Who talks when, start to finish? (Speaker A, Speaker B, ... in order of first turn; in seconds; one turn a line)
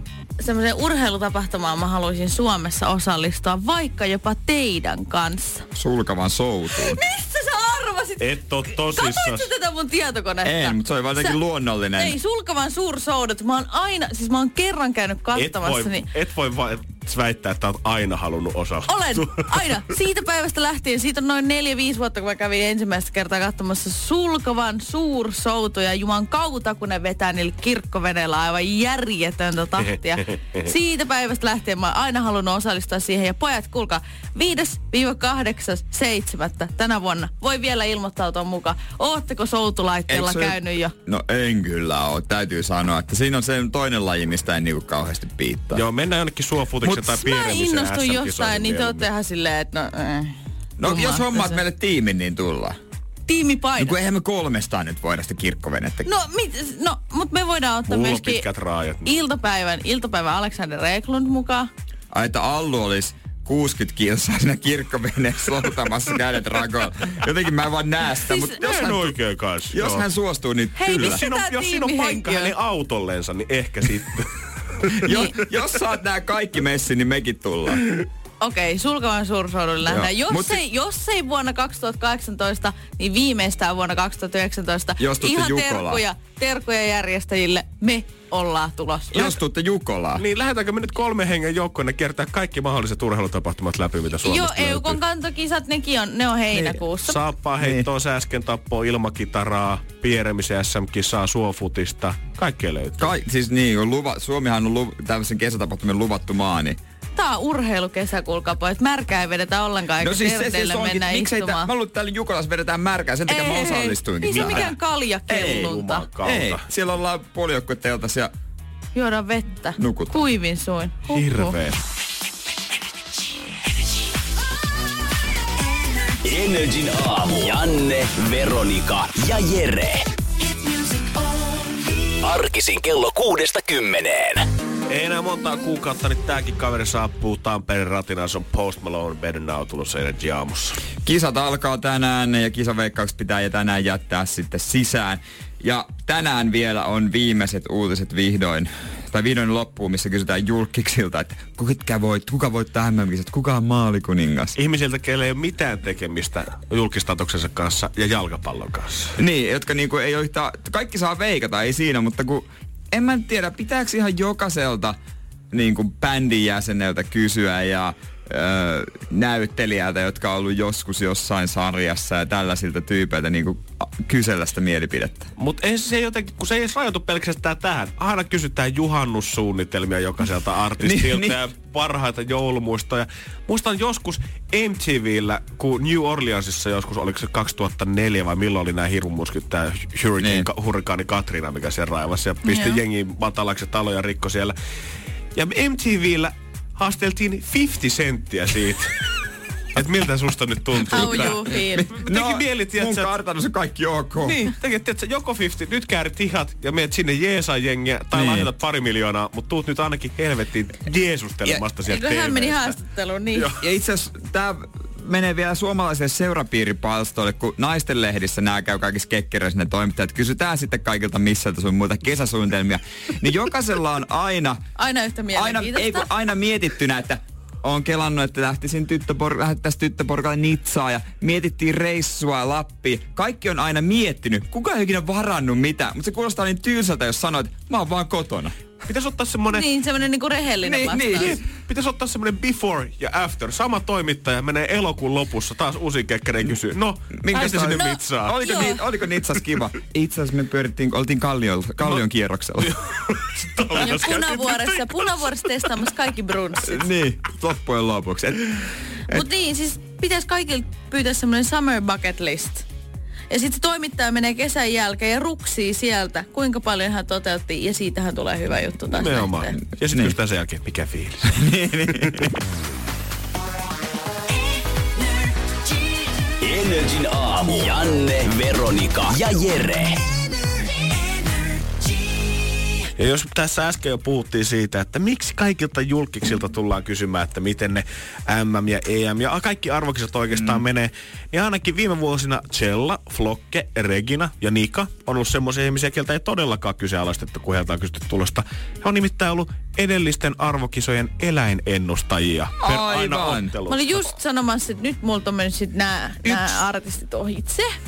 Speaker A: 0.4-5.6
Speaker B: 5.7-7.0
Speaker A: 6.8-11.4
Speaker C: 8.2-9.5
Speaker B: 10.4-12.2
Speaker A: 12.0-16.1
Speaker C: 15.3-19.5
Speaker A: 18.9-40.9
Speaker B: 40.1-45.8
Speaker C: 45.7-49.1
Speaker A: 46.8-51.6
Speaker B: 50.8-52.8
Speaker A: 53.3-54.0
Speaker B: 53.8-56.1
Speaker A: 56.0-58.5
Speaker C: 57.9-59.1
Speaker A: 59.0-61.7
Speaker B: 62.1-69.2
Speaker A: 68.3-68.6
Speaker C: 68.6-70.1
Speaker B: 69.7-71.2
Speaker A: 70.8-72.5
Speaker C: 70.9-75.0
Speaker B: 75.0-77.8
Speaker A: 75.1-75.3
Speaker A: 78.4-89.3
Speaker B: 79.8-80.6
Speaker B: 85.0-86.0
Speaker B: 89.1-90.2
Speaker C: 90.2-95.0
Speaker A: 94.2-97.2
Speaker C: 96.5-103.1
Speaker B: 97.6-97.9
Speaker B: 103.0-106.8
Speaker A: 107.2-111.7
Speaker B: 110.0-114.7
Speaker A: 113.3-116.1
Speaker C: 114.3-114.7
Speaker B: 115.3-118.3
Speaker C: 115.6-116.6
Speaker A: 118.9-121.5
Speaker B: 119.8-120.3
Speaker C: 121.1-121.8
Speaker D: 126.2-130.1
Speaker D: 132.2-134.5
Speaker C: 134.9-140.8
Speaker B: 141.0-154.6
Speaker C: 154.6-159.2
Speaker B: 159.2-165.0
Speaker B: 165.5-175.3
Speaker C: 175.4-194.5
Speaker B: 180.8-181.4
Speaker B: 190.2-190.5
Speaker A: 192.4-192.8
Speaker C: 195.3-199.1
Speaker C: 199.8-203.1
Speaker B: 200.8-204.4
Speaker A: 200.9-201.9
Speaker C: 204.2-212.8
Speaker B: 208.1-208.5
Speaker A: 211.9-213.5
Speaker B: 213.6-224.6
Speaker A: 224.8-226.1
Speaker B: 225.3-238.5
Speaker C: 238.8-239.7
Speaker A: 239.5-241.4
Speaker B: 240.6-241.4
Speaker C: 241.2-248.4
Speaker B: 247.2-252.8
Speaker A: 247.6-248.8
Speaker C: 252.6-255.0
Speaker A: 253.8-256.9
Speaker B: 256.6-259.2
Speaker A: 259.1-262.7
Speaker A: 263.3-269.6
Speaker C: 268.9-271.3
Speaker B: 271.2-272.3
Speaker D: 276.4-280.0
Speaker C: 283.0-304.1
Speaker B: 302.6-303.5
Speaker A: 303.7-307.8